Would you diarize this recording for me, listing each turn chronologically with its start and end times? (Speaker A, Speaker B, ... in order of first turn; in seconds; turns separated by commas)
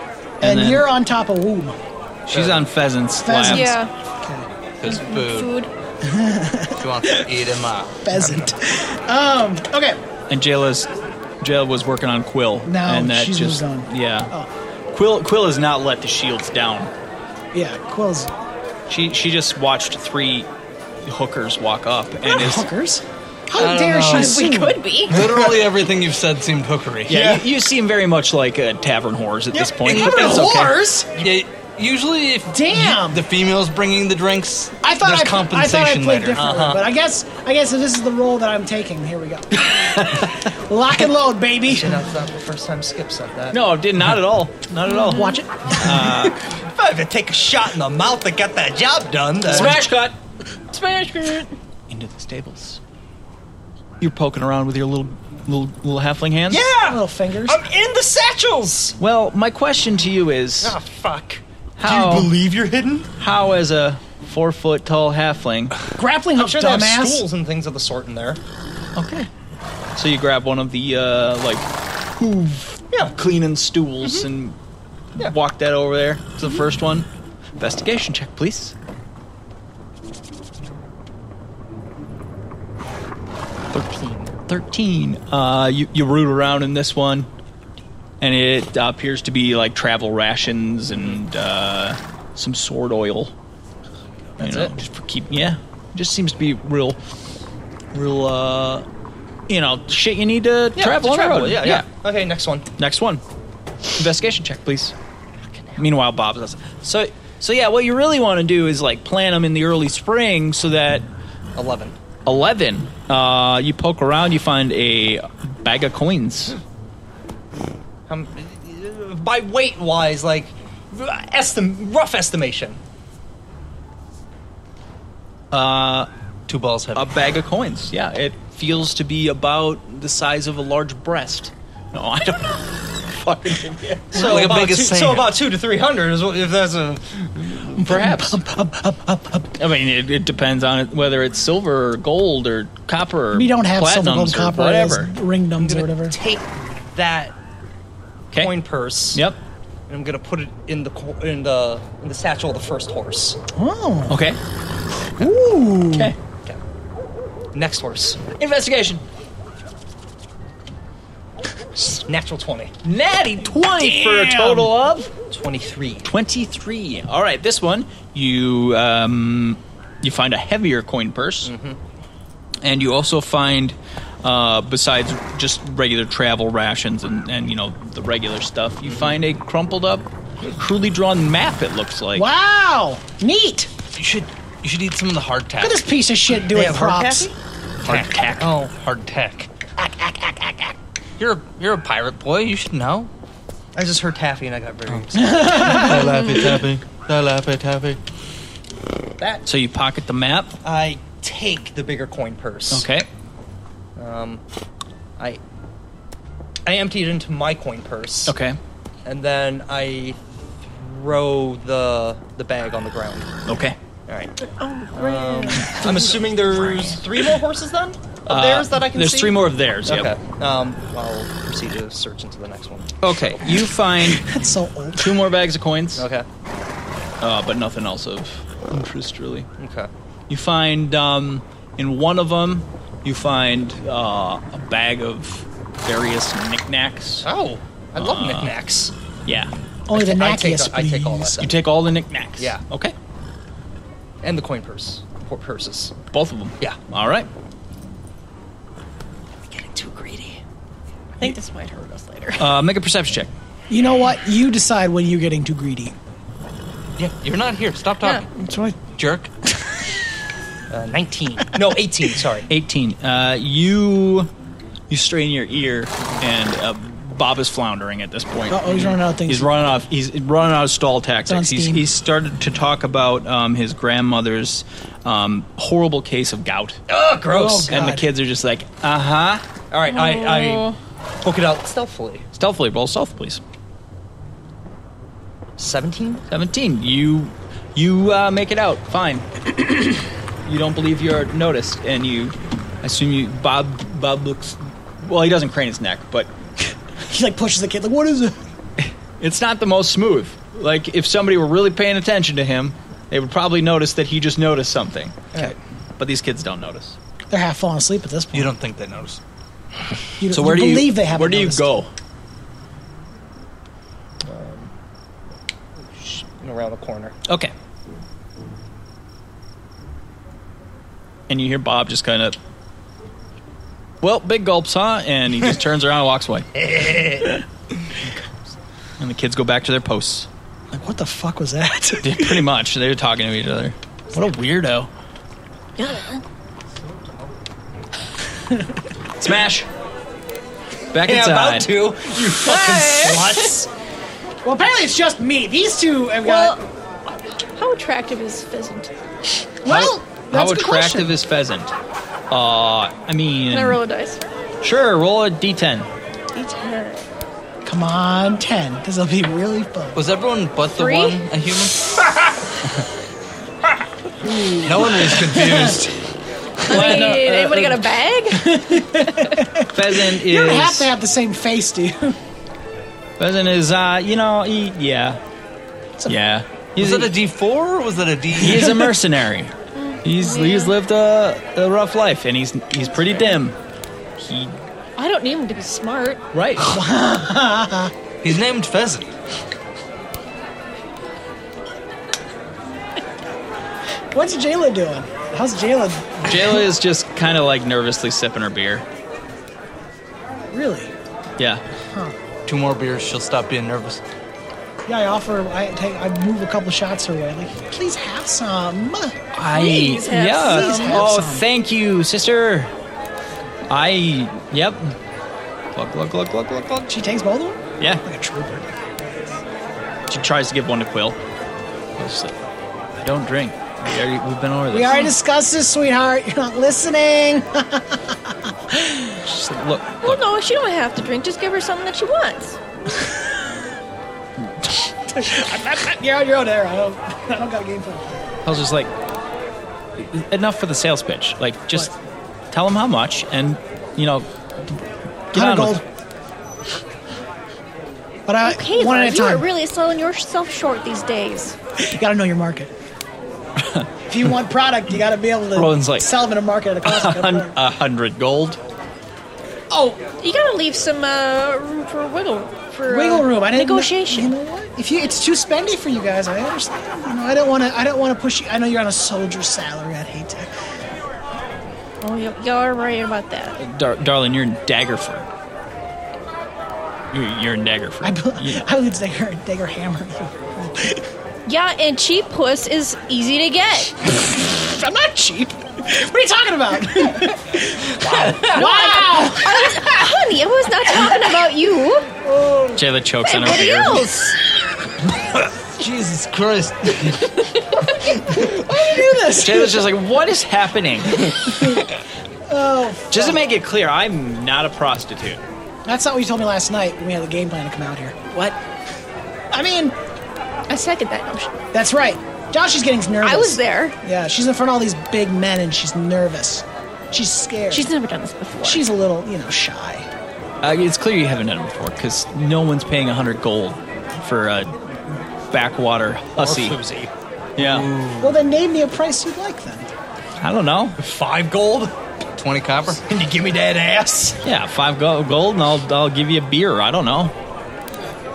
Speaker A: 0.4-1.8, Speaker B: 0.4-0.9, Speaker B: 2.3-3.8, Speaker C: 2.3-2.6, Speaker A: 3.2-4.5, Speaker D: 3.4-3.9, Speaker E: 4.8-5.5, Speaker D: 4.9-5.7, Speaker A: 6.0-7.3, Speaker E: 6.8-7.9, Speaker A: 8.0-10.0, Speaker B: 10.3-10.9, Speaker B: 11.4-14.3, Speaker A: 12.7-14.5, Speaker B: 14.9-16.9, Speaker A: 17.5-18.3, Speaker B: 18.9-20.5, Speaker B: 21.0-22.6, Speaker A: 22.2-24.8, Speaker E: 23.5-24.5, Speaker D: 24.0-25.2, Speaker E: 25.1-27.4, Speaker B: 27.1-30.8, Speaker A: 29.5-31.1, Speaker C: 31.1-31.4, Speaker E: 31.2-36.5, Speaker A: 32.5-33.2, Speaker A: 34.8-42.0, Speaker C: 36.3-36.9, Speaker B: 39.7-40.4, Speaker C: 41.7-43.6, Speaker B: 43.5-46.4, Speaker A: 44.9-46.3, Speaker D: 45.0-45.4, Speaker C: 46.5-49.8, Speaker B: 49.5-50.2, Speaker D: 50.7-51.5, Speaker B: 51.9-52.8, Speaker B: 54.0-56.6, Speaker C: 56.5-59.0, Speaker A: 56.8-57.6, Speaker B: 59.0-60.8, Speaker C: 60.6-63.1, Speaker B: 61.8-62.3, Speaker B: 63.2-65.8, Speaker A: 66.0-67.2, Speaker C: 66.3-68.4, Speaker B: 69.0-69.3, Speaker B: 69.9-74.6, Speaker B: 75.2-77.1, Speaker B: 77.6-78.7, Speaker B: 83.7-87.3, Speaker B: 88.2-93.3, Speaker C: 94.4-94.7, Speaker B: 94.4-97.0, Speaker B: 97.9-98.8, Speaker B: 99.5-101.9, Speaker C: 100.7-102.7, Speaker B: 102.8-103.2, Speaker B: 104.0-104.9, Speaker C: 105.5-105.8, Speaker B: 105.8-111.0, Speaker C: 111.5-112.0, Speaker B: 112.2-116.6, Speaker C: 118.1-122.8, Speaker B: 125.5-126.1, Speaker E: 126.5-127.2, Speaker B: 126.9-134.7, Speaker C: 134.1-137.6, Speaker E: 134.2-135.3, Speaker B: 137.6-138.4, Speaker A: 137.8-139.5, Speaker B: 139.5-145.1, Speaker A: 143.3-146.2, Speaker C: 145.6-147.3, Speaker C: 148.3-149.2, Speaker C: 149.9-153.4, Speaker A: 153.5-154.2, Speaker B: 154.1-154.4, Speaker A: 155.2-156.1, Speaker C: 157.5-158.2, Speaker B: 158.4-159.0, Speaker C: 161.8-162.7, Speaker B: 162.8-165.1, Speaker C: 163.8-164.7, Speaker C: 165.3-166.1, Speaker B: 166.1-171.5, Speaker C: 171.4-171.8, Speaker B: 172.6-182.2, Speaker C: 178.8-179.1, Speaker A: 182.1-183.7, Speaker E: 183.9-185.8, Speaker A: 185.6-187.3, Speaker C: 186.5-188.7, Speaker B: 187.8-188.4, Speaker E: 188.0-189.5, Speaker A: 189.8-190.7, Speaker E: 191.2-193.1, Speaker C: 193.7-195.7, Speaker E: 194.9-198.0, Speaker A: 195.1-196.1, Speaker C: 199.2-199.4, Speaker B: 199.4-200.5, Speaker C: 200.6-202.9, Speaker B: 202.7-203.1, Speaker C: 203.9-204.4, Speaker C: 206.6-208.3, Speaker B: 208.2-208.6, Speaker C: 209.0-210.2, Speaker C: 210.7-213.3, Speaker B: 213.4-213.8, Speaker C: 214.1-214.3, Speaker D: 214.4-216.0, Speaker C: 214.9-222.9, Speaker B: 218.3-220.1, Speaker B: 223.0-224.3, Speaker A: 224.1-225.2, Speaker B: 225.0-226.1, Speaker C: 226.0-226.3, Speaker B: 227.2-229.5, Speaker C: 229.6-229.9, Speaker B: 230.3-237.3, Speaker C: 237.2-238.9, Speaker B: 238.0-238.5, Speaker B: 239.2-239.5, Speaker A: 239.9-241.4, Speaker C: 239.9-241.6, Speaker B: 241.3-242.9, Speaker C: 244.2-245.9, Speaker B: 246.1-247.3, Speaker D: 251.2-252.5, Speaker B: 252.4-253.3, Speaker A: 253.7-255.9, Speaker E: 257.0-258.3, Speaker A: 258.4-258.8, Speaker E: 258.9-259.3, Speaker C: 260.7-262.5, Speaker B: 262.5-264.3, Speaker B: 264.9-276.8, Speaker A: 268.5-269.5, Speaker A: 271.3-271.8, Speaker C: 276.9-277.9, Speaker A: 277.3-278.1, Speaker B: 277.5-279.4, Speaker C: 279.7-280.7, Speaker D: 279.9-280.8, Speaker C: 281.2-282.2, Speaker B: 282.4-283.4, Speaker C: 285.6-286.2, Speaker B: 286.3-296.3, Speaker A: 297.1-298.4, Speaker B: 298.8-305.4, Speaker B: 306.0-307.0, Speaker A: 307.3-308.5, Speaker E: 308.3-309.2, Speaker A: 310.2-311.8, Speaker B: 310.3-311.9, Speaker C: 314.2-314.7, Speaker C: 315.9-317.1, Speaker B: 317.3-317.5, Speaker B: 321.3-322.4, Speaker B: 324.0-326.6, Speaker C: 326.6-327.3, Speaker B: 329.0-330.3, Speaker A: 330.7-332.4, Speaker B: 332.0-334.9, Speaker D: 335.8-336.2, Speaker B: 339.2-339.7, Speaker B: 340.9-341.7, Speaker C: 341.0-343.7, Speaker D: 342.3-343.5, Speaker A: 344.4-346.6, Speaker D: 346.2-346.6, Speaker D: 347.6-348.9, Speaker A: 349.6-351.1, Speaker B: 349.6-351.7, Speaker B: 352.3-353.8, Speaker D: 353.5-354.2, Speaker B: 354.6-355.9, Speaker D: 356.3-357.0, Speaker A: 357.6-360.0, Speaker E: 359.9-361.9, Speaker D: 360.7-361.2, Speaker A: 364.2-365.8, Speaker E: 364.6-365.9, Speaker D: 366.6-369.3, Speaker B: 366.7-367.9, Speaker A: 368.3-372.2, Speaker B: 369.7-370.9, Speaker B: 373.2-375.2, Speaker B: 376.1-377.2, Speaker E: 376.8-378.9, Speaker B: 378.4-383.6, Speaker D: 379.7-380.7, Speaker B: 384.2-384.5, Speaker D: 385.0-386.2, Speaker B: 386.3-386.8, Speaker A: 386.6-387.9, Speaker E: 388.2-389.1, Speaker A: 394.1-396.6, Speaker B: 396.2-398.8, Speaker A: 400.5-400.9, Speaker B: 401.4-401.6, Speaker A: 401.9-402.1, Speaker E: 402.4-404.0, Speaker A: 404.9-409.2, Speaker B: 409.3-412.7, Speaker D: 409.5-411.1, Speaker A: 410.4-411.4, Speaker B: 413.7-414.9, Speaker B: 415.7-416.9, Speaker A: 416.9-418.7, Speaker B: 420.1-421.2, Speaker B: 422.0-422.3, Speaker B: 423.0-425.1, Speaker A: 424.7-429.2, Speaker B: 429.2-430.2, Speaker D: 430.0-432.6, Speaker A: 435.1-438.3, Speaker B: 438.4-438.9, Speaker B: 440.0-441.9, Speaker B: 442.5-444.8, Speaker B: 445.3-445.8, Speaker A: 445.3-445.8, Speaker A: 448.3-449.4, Speaker D: 448.4-451.6, Speaker A: 451.8-452.7, Speaker B: 453.6-453.9, Speaker A: 454.1-457.5, Speaker B: 455.6-456.1, Speaker B: 456.8-458.6, Speaker D: 459.7-464.3, Speaker A: 462.9-470.5, Speaker D: 472.0-473.6, Speaker B: 473.6-475.3, Speaker B: 477.1-478.6, Speaker A: 478.0-481.0, Speaker D: 481.4-483.9, Speaker A: 484.1-489.9, Speaker D: 488.3-492.1, Speaker A: 492.2-492.8, Speaker B: 492.7-494.1, Speaker D: 493.2-494.3, Speaker E: 495.7-497.4, Speaker D: 497.4-498.2, Speaker A: 498.2-499.8, Speaker B: 499.3-501.4, Speaker A: 502.5-503.4, Speaker B: 503.1-505.4, Speaker A: 505.9-508.3, Speaker A: 509.5-509.9, Speaker D: 510.7-511.5, Speaker A: 511.7-517.9, Speaker D: 513.2-513.9, Speaker D: 517.7-518.8, Speaker A: 518.6-520.1, Speaker B: 520.6-524.7, Speaker B: 525.5-526.8, Speaker C: 526.4-527.1, Speaker B: 527.6-527.9, Speaker E: 527.6-528.3, Speaker C: 527.7-528.1, Speaker A: 528.2-529.9, Speaker B: 530.4-531.0, Speaker C: 531.0-531.9, Speaker E: 532.3-533.0, Speaker C: 533.0-534.4, Speaker B: 534.4-537.3